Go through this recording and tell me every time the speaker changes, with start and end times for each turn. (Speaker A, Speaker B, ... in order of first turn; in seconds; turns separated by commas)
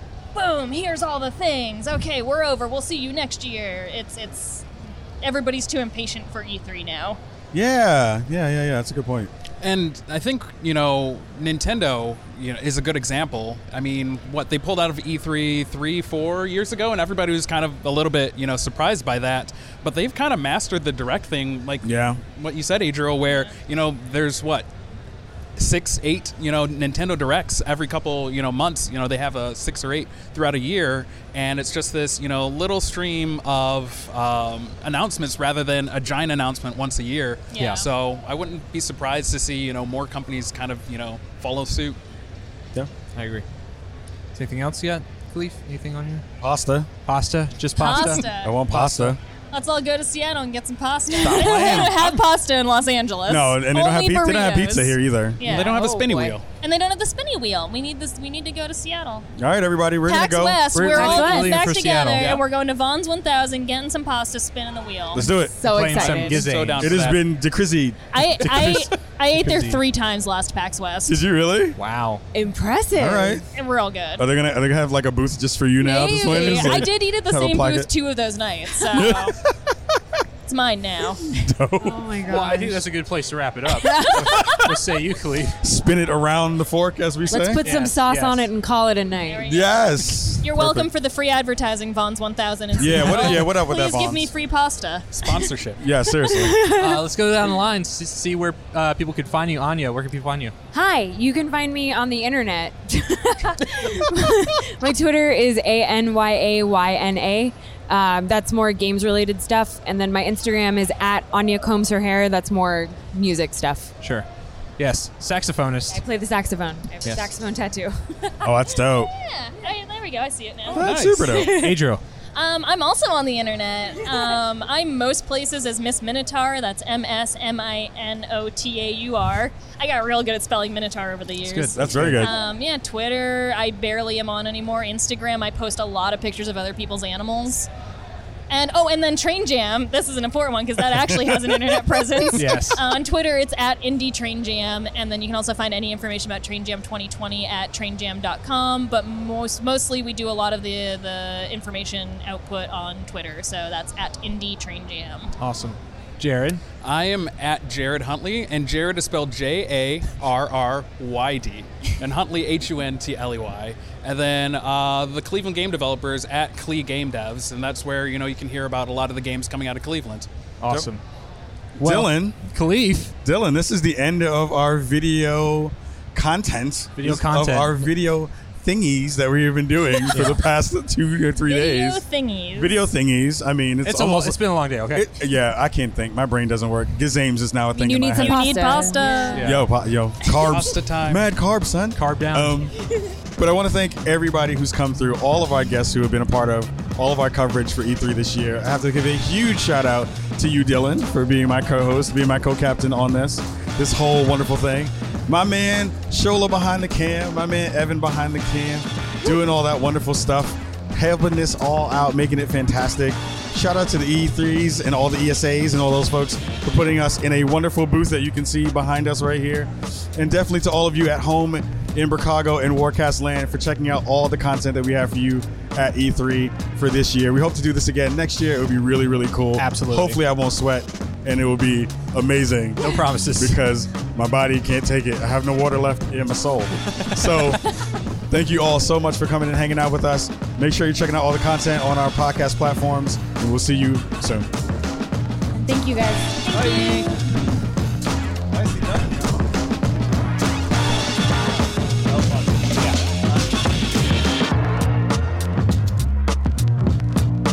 Speaker A: 0.3-4.7, Speaker A: 5.2-7.2, Speaker B: 7.5-9.3, Speaker C: 9.6-24.7, Speaker B: 21.8-22.2, Speaker A: 23.2-23.5, Speaker C: 25.6-42.0, Speaker A: 37.5-37.9, Speaker D: 37.6-37.8, Speaker D: 43.1-43.4, Speaker D: 44.3-46.2, Speaker B: 46.4-46.9, Speaker D: 47.0-49.2, Speaker A: 47.8-48.6, Speaker B: 47.9-49.2, Speaker A: 49.5-59.3, Speaker D: 51.2-52.0, Speaker B: 51.2-52.0, Speaker C: 51.3-52.0, Speaker B: 53.3-55.5, Speaker C: 55.4-56.5, Speaker E: 55.6-56.3, Speaker B: 59.4-60.6, Speaker A: 60.0-65.2, Speaker D: 60.7-62.4, Speaker E: 60.8-61.6, Speaker B: 65.1-65.5, Speaker E: 65.1-66.4, Speaker D: 65.6-67.1, Speaker C: 65.9-67.2, Speaker B: 66.8-68.9, Speaker A: 68.1-71.2, Speaker D: 68.4-68.8, Speaker D: 69.4-69.8, Speaker B: 71.1-71.8, Speaker D: 71.8-72.2, Speaker E: 72.3-73.4, Speaker B: 73.0-73.4, Speaker A: 73.5-74.2, Speaker B: 74.2-77.9, Speaker A: 75.8-79.4, Speaker E: 76.3-76.8, Speaker B: 78.9-79.7, Speaker A: 80.5-81.2, Speaker B: 81.3-82.0, Speaker E: 81.8-82.8, Speaker D: 82.2-85.6, Speaker E: 83.8-84.5, Speaker B: 85.6-87.6, Speaker E: 87.3-89.6, Speaker D: 87.6-88.5, Speaker A: 89.2-95.3, Speaker B: 89.5-90.9, Speaker B: 92.8-94.3, Speaker D: 92.8-93.5, Speaker C: 95.1-95.8, Speaker B: 95.8-96.6, Speaker E: 96.2-97.0, Speaker D: 96.7-100.5, Speaker E: 100.7-113.9, Speaker D: 114.0-114.2, Speaker D: 114.8-116.0, Speaker E: 115.9-118.0, Speaker B: 118.4-119.1, Speaker A: 118.8-121.4, Speaker B: 120.7-121.7, Speaker D: 120.7-122.0, Speaker E: 121.2-121.7, Speaker A: 122.3-137.7, Speaker D: 131.4-132.3, Speaker B: 131.7-132.3, Speaker A: 138.5-155.3, Speaker D: 142.3-142.8, Speaker D: 155.4-156.6, Speaker C: 156.8-170.3, Speaker D: 170.6-171.0, Speaker B: 171.8-172.4, Speaker D: 171.8-173.1, Speaker B: 173.2-182.0, Speaker D: 177.0-177.9, Speaker A: 179.9-180.3, Speaker D: 180.1-180.4, Speaker A: 181.4-182.8, Speaker B: 182.6-184.4, Speaker D: 183.8-185.1, Speaker B: 184.9-188.6, Speaker E: 187.7-189.4, Speaker A: 188.2-189.6, Speaker D: 189.3-189.7, Speaker B: 189.4-192.7, Speaker C: 190.4-191.2, Speaker D: 191.9-192.6, Speaker B: 193.3-237.6, Speaker D: 229.6-230.2, Speaker D: 232.8-233.6, Speaker D: 237.0-237.6, Speaker B: 238.3-244.5, Speaker E: 245.5-246.5, Speaker A: 246.4-247.2, Speaker C: 246.6-247.2, Speaker C: 248.5-249.3, Speaker C: 252.1-252.6